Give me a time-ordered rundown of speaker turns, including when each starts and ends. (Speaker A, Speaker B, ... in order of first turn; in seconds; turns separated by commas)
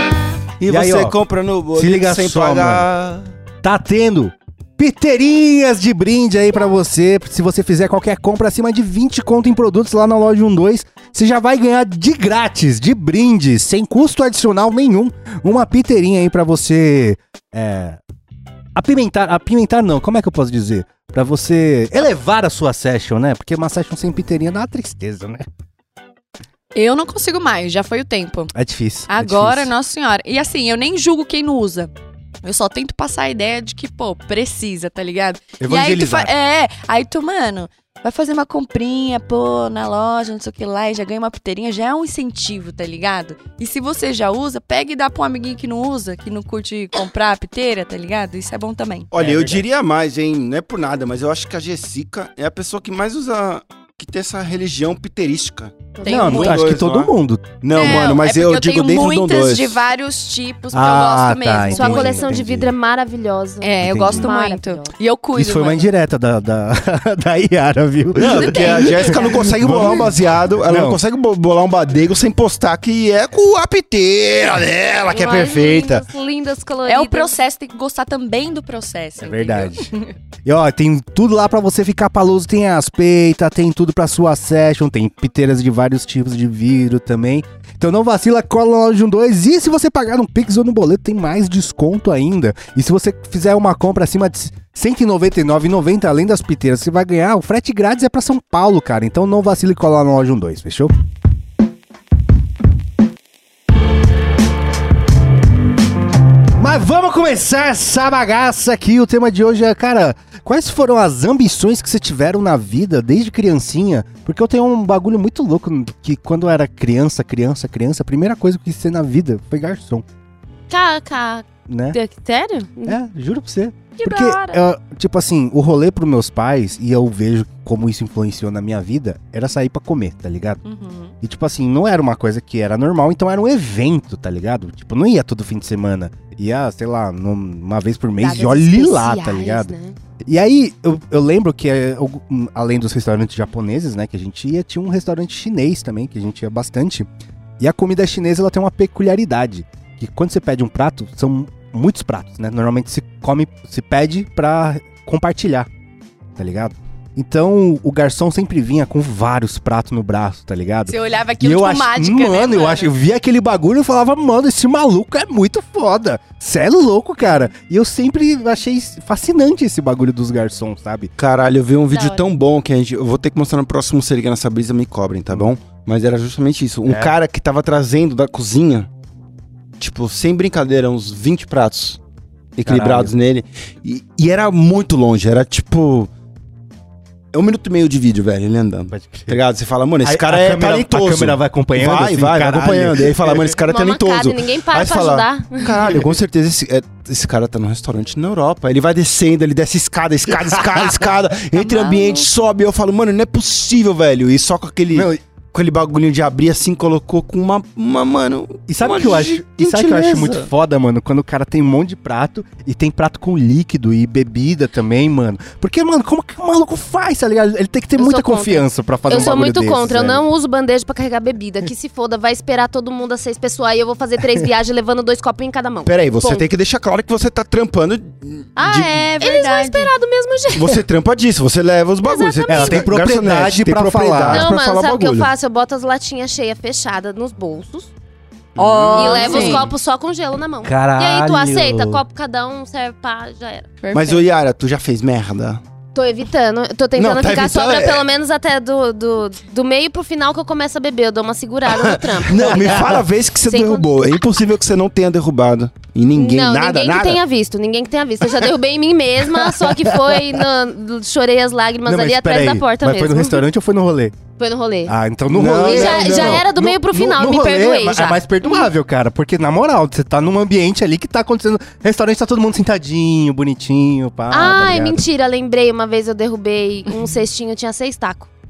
Speaker A: 0.6-3.3, Speaker B: 0.7-1.1, Speaker B: 1.8-2.9, Speaker B: 3.6-18.0, Speaker B: 18.8-25.5, Speaker C: 26.8-28.5, Speaker B: 28.6-29.7, Speaker C: 29.1-31.9, Speaker C: 32.4-49.1, Speaker B: 35.6-36.3, Speaker A: 49.1-59.8, Speaker B: 49.1-49.6, Speaker D: 56.0-56.5, Speaker C: 56.0-56.6, Speaker B: 56.1-58.1, Speaker C: 57.7-62.3, Speaker B: 60.7-62.7, Speaker D: 61.7-64.9, Speaker C: 63.6-65.8, Speaker B: 63.8-64.3, Speaker B: 65.4-71.0, Speaker A: 68.2-76.0, Speaker D: 68.3-69.2, Speaker D: 75.1-77.3, Speaker C: 76.9-80.1, Speaker B: 79.2-79.8, Speaker B: 80.5-100.9, Speaker B: 106.6-120.0, Speaker D: 120.7-123.0, Speaker B: 121.7-122.0, Speaker B: 122.8-130.6, Speaker D: 124.0-124.6, Speaker C: 130.7-131.1, Speaker B: 131.2-139.7, Speaker D: 138.2-140.0, Speaker B: 140.2-147.1, Speaker B: 147.6-155.7, Speaker B: 156.4-171.1, Speaker C: 160.9-162.9, Speaker A: 171.2-178.9, Speaker C: 171.9-172.3, Speaker B: 176.8-177.2, Speaker A: 179.8-182.0, Speaker A: 182.6-186.1, Speaker B: 182.7-183.1, Speaker A: 187.3-210.5, Speaker B: 188.9-189.4, Speaker B: 190.0-193.6, Speaker D: 193.7-195.8, Speaker B: 195.7-196.2, Speaker B: 200.5-200.9, Speaker C: 201.6-202.3, Speaker B: 204.9-205.2, Speaker B: 208.7-220.2, Speaker D: 218.0-226.4, Speaker A: 225.9-228.9, Speaker C: 228.6-229.9, Speaker D: 229.2-230.8, Speaker A: 230.5-235.3, Speaker D: 232.0-233.0, Speaker B: 232.5-234.5, Speaker D: 234.3-237.9, Speaker A: 238.6-239.7, Speaker C: 238.6-239.7, Speaker D: 238.9-243.7, Speaker B: 240.6-242.0, Speaker C: 243.8-244.2, Speaker A: 243.9-245.6, Speaker D: 245.9-253.9, Speaker A: 247.0-248.1, Speaker A: 251.7-257.2, Speaker B: 252.5-253.0, Speaker D: 256.1-263.4, Speaker B: 259.6-260.3, Speaker B: 261.9-264.2, Speaker D: 264.4-268.7, Speaker B: 264.9-275.0, Speaker A: 265.3-266.4, Speaker D: 274.3-278.3